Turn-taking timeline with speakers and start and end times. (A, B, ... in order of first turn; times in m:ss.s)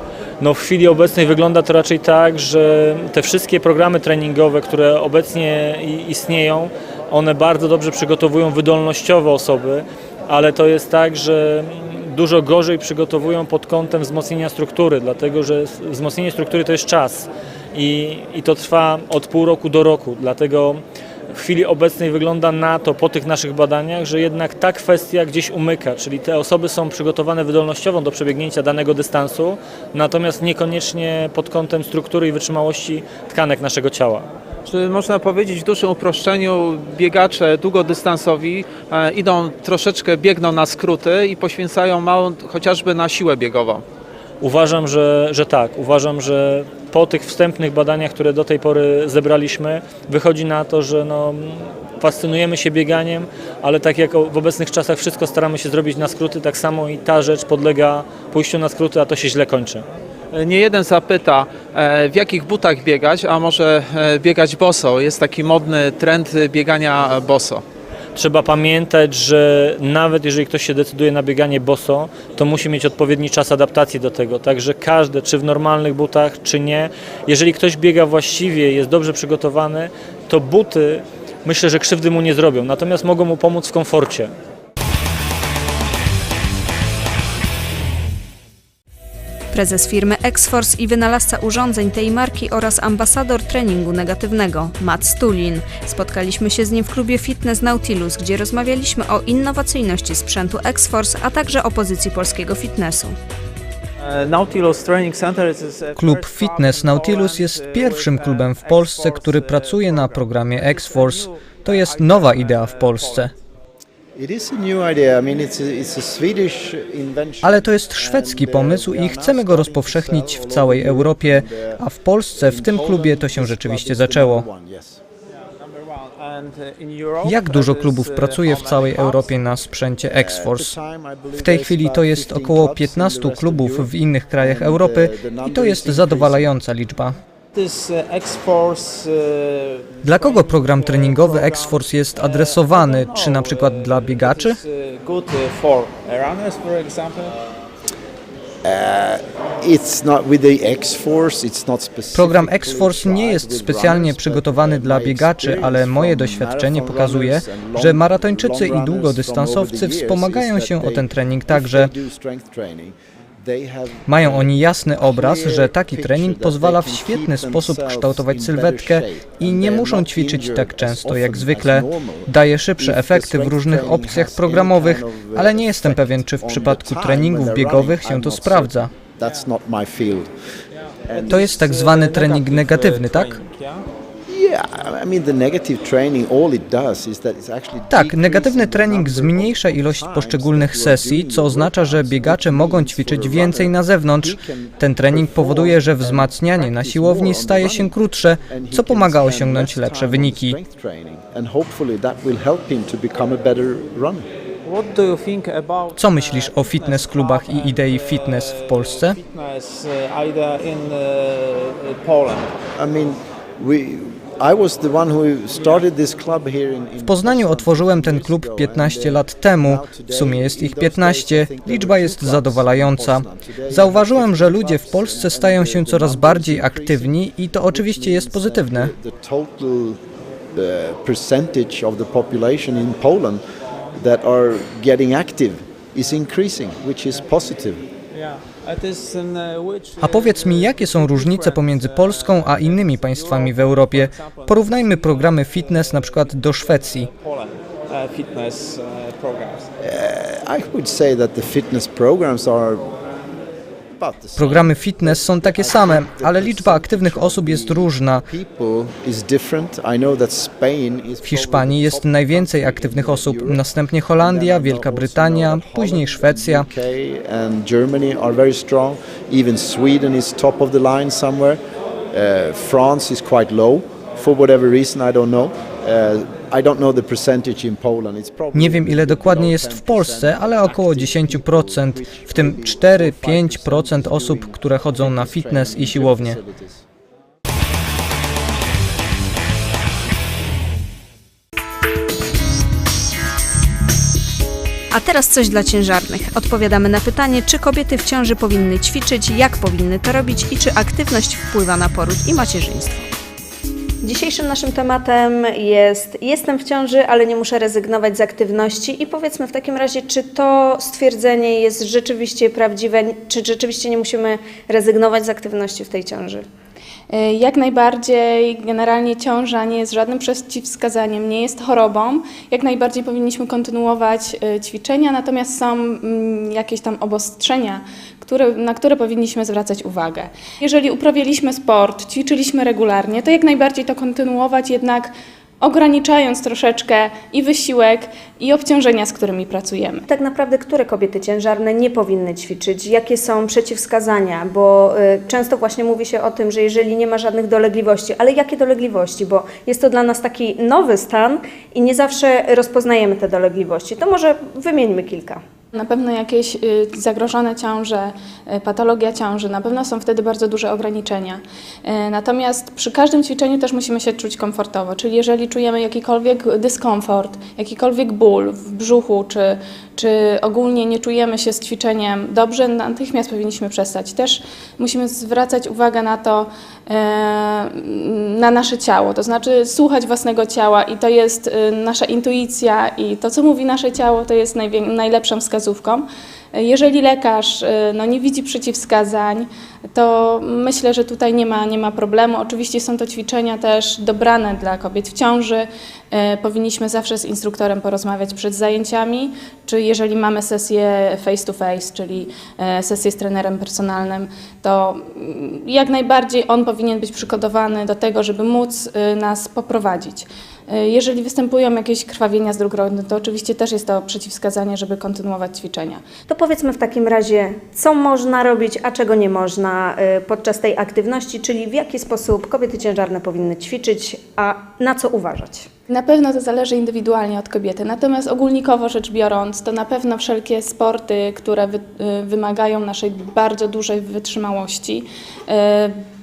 0:00.4-0:34.3 A
0:34.6-0:43.8 B
0:44.4-0:59.8 A
1:00.3-1:07.6 B
1:08.1-1:24.3 A
1:29.5-1:43.2 C
1:44.0-1:53.3 B
1:46.0-1:53.3 D
1:54.2-2:01.8 E
1:57.4-2:04.4 D
2:02.4-2:05.0 E
2:05.6-2:09.3 B
2:07.2-2:10.8 D
2:10.0-2:16.5 E
2:11.3-2:17.1 D
2:17.5-2:27.3 B
2:20.0-2:24.6 D
2:28.6-3:00.3 E
2:32.1-2:41.9 D
2:44.1-2:58.9 D
3:00.8-3:03.8 B
3:01.1-3:01.5 E
3:01.3-3:03.4 D
3:04.3-3:24.3 E
3:07.9-3:20.6 D
3:24.6-3:32.6 B
3:26.0-3:29.2 D
3:32.8-3:47.2 E
3:37.0-3:48.9 D
3:47.7-3:53.4 E
3:53.9-3:57.8 E
3:58.1-4:09.7 B
4:00.0-4:07.1 D
4:09.8-4:12.9 E
4:14.0-4:23.6 E
4:14.4-4:18.2 D
4:21.2-4:26.7 D
4:24.2-4:31.6 E
4:32.1-4:46.8 E
4:38.5-4:46.4 D
4:54.9-5:03.1 C
5:04.0-5:16.4 C
5:17.1-5:40.0 F
5:40.1-5:55.4 C
5:55.7-6:56.0 F
6:56.3-7:05.7 C
7:05.9-7:16.0 F